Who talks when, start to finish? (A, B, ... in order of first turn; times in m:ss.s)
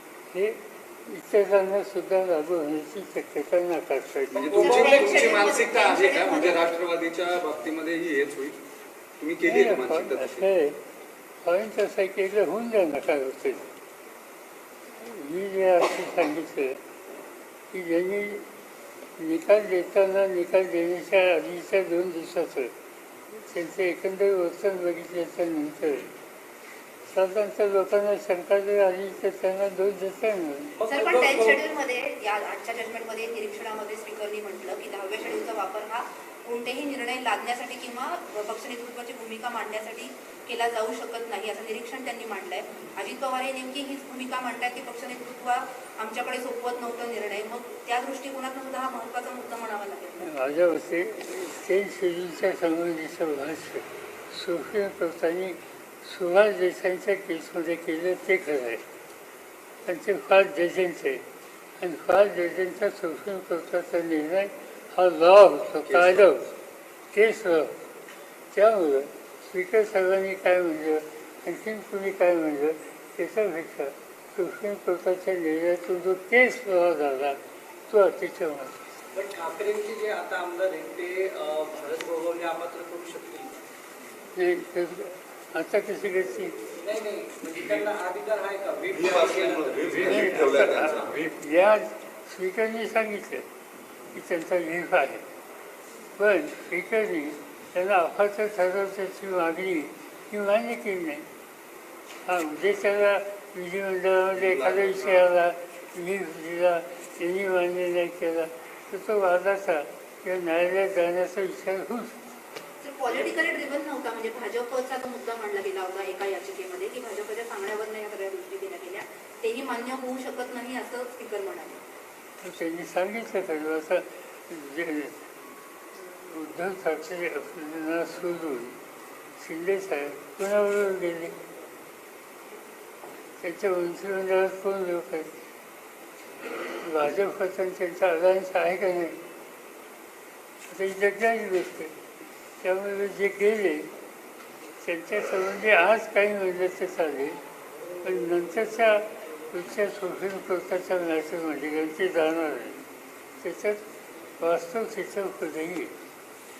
0:00.3-0:04.5 A
0:04.3-0:08.6 B
0:04.6-0:04.8 C
0:04.6-0:06.6 D
0:09.2-0:10.5 B
0:09.4-0:10.8 A
0:11.4-0:13.6 A
0:15.0-0:16.8 A
0:17.7-0:18.5 A
0:19.2-0:22.7 A
0:23.3-0:26.1 A
0:27.1-0:30.8 A
0:30.8-0:31.6 C
0:30.9-0:50.3 D
0:50.2-0:58.8 A
0:59.8-1:01.2 A
1:01.8-1:06.5 A
1:05.8-1:06.2 B
1:07.1-1:07.7 A
1:08.5-1:17.4 A
1:17.9-1:18.8 A
1:19.1-1:23.6 C
1:24.3-1:26.5 A
1:26.8-1:30.2 C
1:28.9-1:31.3 B
1:30.0-1:33.4 A
1:34.1-1:35.2 A
1:36.2-1:41.2 A
1:42.3-1:52.2 A
1:44.4-1:45.3 B
1:52.8-2:01.8 D
2:02.4-2:05.2 A
2:05.9-2:08.8 A
2:09.4-2:11.3 A
2:13.4-2:15.3 A
2:16.8-2:19.1 A
2:20.7-2:21.9 A
2:22.6-2:23.8 A
2:24.8-2:27.4 A
2:28.0-2:32.8 A
2:33.4-2:33.8 A
2:34.4-2:35.9 A